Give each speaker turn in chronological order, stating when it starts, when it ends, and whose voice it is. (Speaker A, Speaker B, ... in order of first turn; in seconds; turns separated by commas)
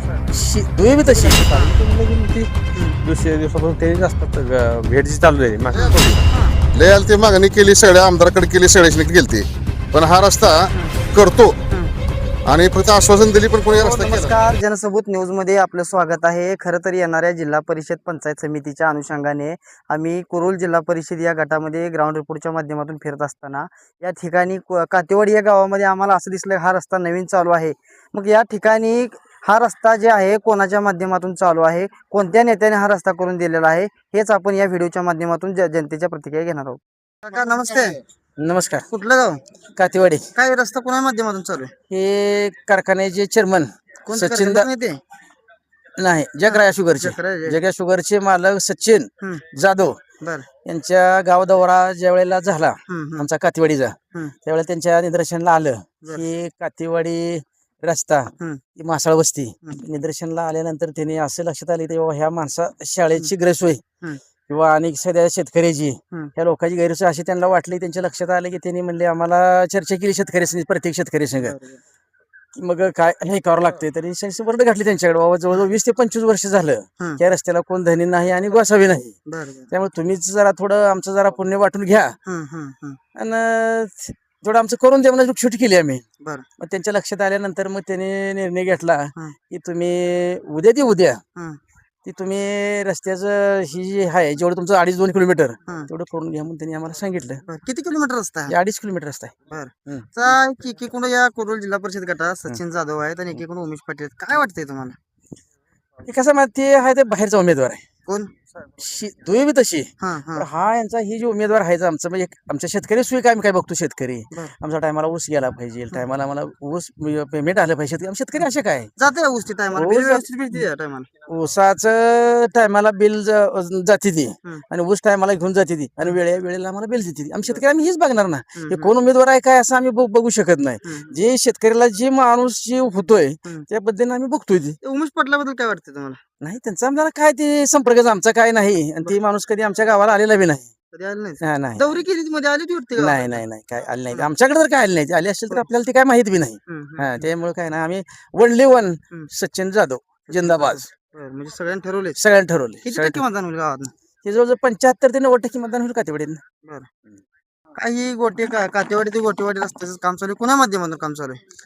Speaker A: 0.3-1.4, Speaker B: 1.1-6.2, Speaker C: 1.5-1.8, Speaker D: 5.7-6.2, Speaker C: 5.7-6.6, Speaker D: 6.7-11.6, Speaker C: 10.7-11.0, Speaker D: 12.5-14.3, Speaker C: 13.7-38.0, Speaker A: 38.4-38.9, Speaker C: 38.9-39.4, Speaker A: 39.8-40.3, Speaker C: 40.4-41.7, Speaker A: 41.9-44.7, Speaker C: 44.0-45.0, Speaker A: 46.0-50.0, Speaker C: 46.5-47.6, Speaker C: 50.2-50.5, Speaker A: 50.6-63.8, Speaker C: 52.9-53.3, Speaker A: 64.5-71.5, Speaker C: 71.4-71.8, Speaker A: 72.5-79.1, Speaker C: 79.3-79.7, Speaker A: 79.7-82.2, Speaker C: 82.2-83.0, Speaker A: 83.2-86.0, Speaker A: 86.6-91.2, Speaker A: 92.0-97.4, Speaker C: 97.5-98.5, Speaker A: 98.5-99.3, Speaker C: 99.5-105.0, Speaker A: 106.0-107.8, Speaker C: 108.1-108.3, Speaker A: 108.8-118.9, Speaker C: 110.0-110.5, Speaker C: 119.0-121.1, Speaker A: 119.7-120.6, Speaker A: 121.3-134.8, Speaker C: 128.6-128.9, Speaker C: 130.8-131.2, Speaker C: 134.8-136.2, Speaker A: 136.4-140.7, Speaker C: 140.9-143.4, Speaker A: 141.4-141.9, Speaker A: 143.0-150.9, Speaker C: 146.7-147.3, Speaker C: 150.3-152.2, Speaker A: 152.2-153.2, Speaker C: 152.8-153.9, Speaker A: 154.2-156.4, Speaker C: 156.6-156.9, Speaker C: 157.8-161.4